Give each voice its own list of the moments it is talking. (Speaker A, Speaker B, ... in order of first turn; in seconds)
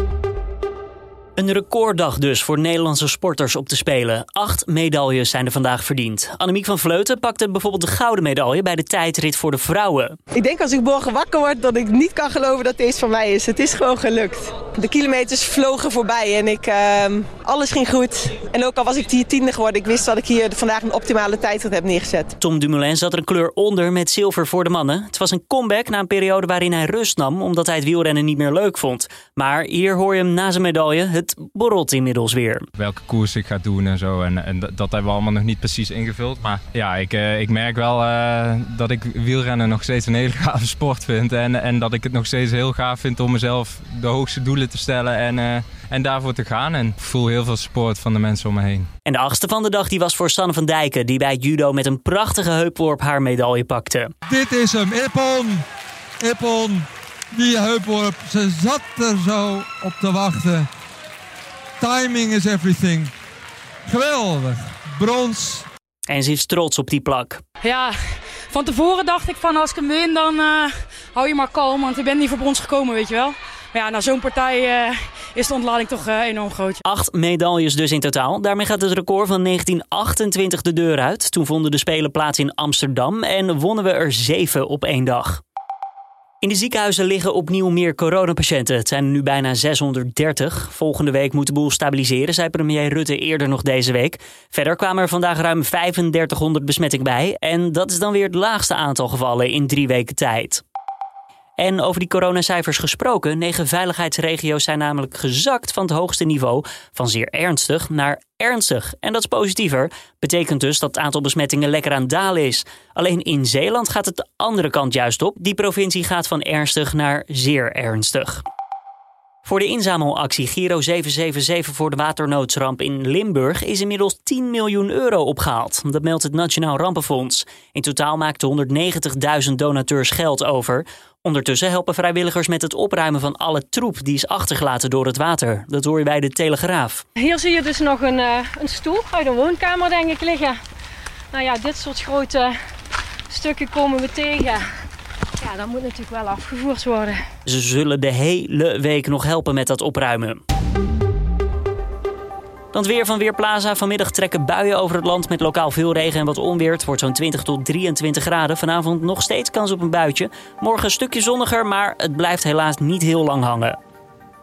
Speaker A: 1.4-10.2, 22.4-32.7, 49.0-54.1, 66.1-67.4, 76.8-85.4, 86.4-100.6, 101.6-118.4, 119.4-137.0, 147.4-150.4, 152.7-163.8
Speaker B: 10.3-22.3
Speaker C: 32.8-48.9
Speaker D: 54.3-55.6, 56.2-60.7, 61.8-63.1, 63.9-65.7
Speaker E: 67.6-76.8
Speaker F: 137.2-140.6, 141.3-142.6, 143.3-144.7, 145.4-147.3